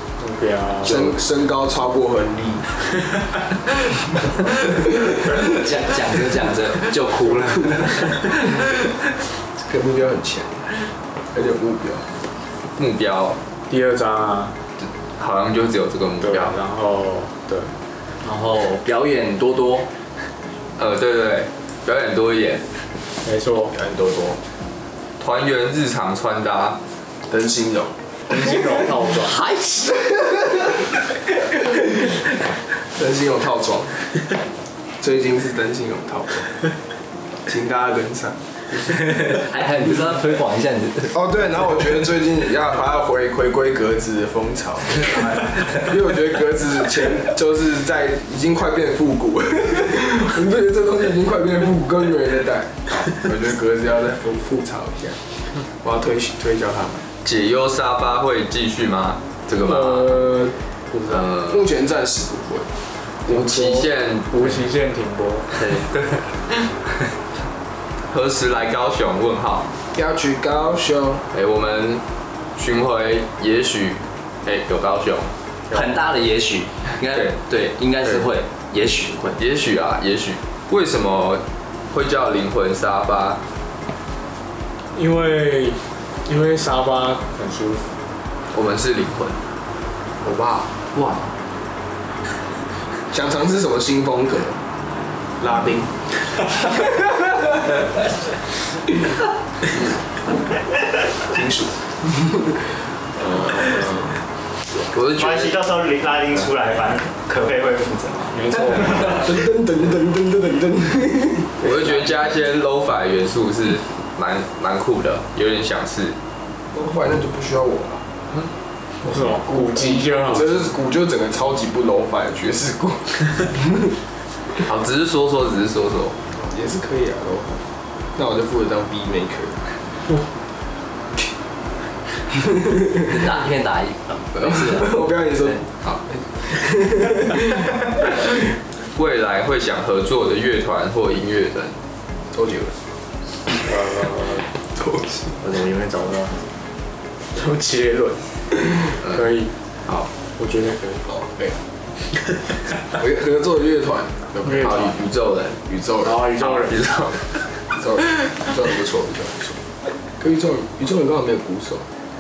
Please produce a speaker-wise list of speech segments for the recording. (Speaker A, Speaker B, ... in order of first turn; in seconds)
Speaker A: 0.2-1.1, 13.7-14.6, 16.2-17.7, 23.2-23.7, 28.3-29.4, 64.3-65.7, 85.0-88.0, 90.2-90.7, 108.3-109.3, 119.0-120.7, 143.5-144.5, 147.3-149.5, 150.3-151.1, 154.4-154.9, 156.0-156.8
Speaker B: 0.8-2.7, 4.6-5.4, 7.6-8.7, 9.6-10.7, 11.3-12.1, 23.7-24.4, 27.3-28.8, 29.5-32.3, 32.9-34.0, 35.0-36.6, 37.5-38.9, 41.1-57.1, 59.5-62.7, 63.3-63.9, 70.0-71.2, 93.1-94.6, 95.4-97.7, 101.3-102.6, 103.2-104.2, 108.5-112.2, 116.7-118.1, 119.0-123.8, 126.4-129.6, 134.4-138.3, 142.3-142.8, 144.7-145.4, 151.1-151.6, 152.9-154.9, 155.7-156.2, 157.7-159.6, 160.2-161.9
Speaker C: 5.5-8.4, 18.2-19.9, 38.9-41.1, 45.4-45.7, 75.7-79.4, 133.1-135.6, 145.4-146.5
Speaker D: 12.8-13.4, 14.8-16.5, 20.8-22.6, 25.2-26.8, 57.2-60.2, 61.1-61.6, 63.3-64.6, 65.7-66.2, 68.1-69.7, 71.3-72.0, 72.6-75.3, 77.1-77.4, 79.4-83.4, 88.5-89.4, 104.9-105.6, 111.6-116.2, 124.6-126.2, 138.9-141.8, 154.6-155.8, 156.4-157.4
Speaker E: 105.2-109.0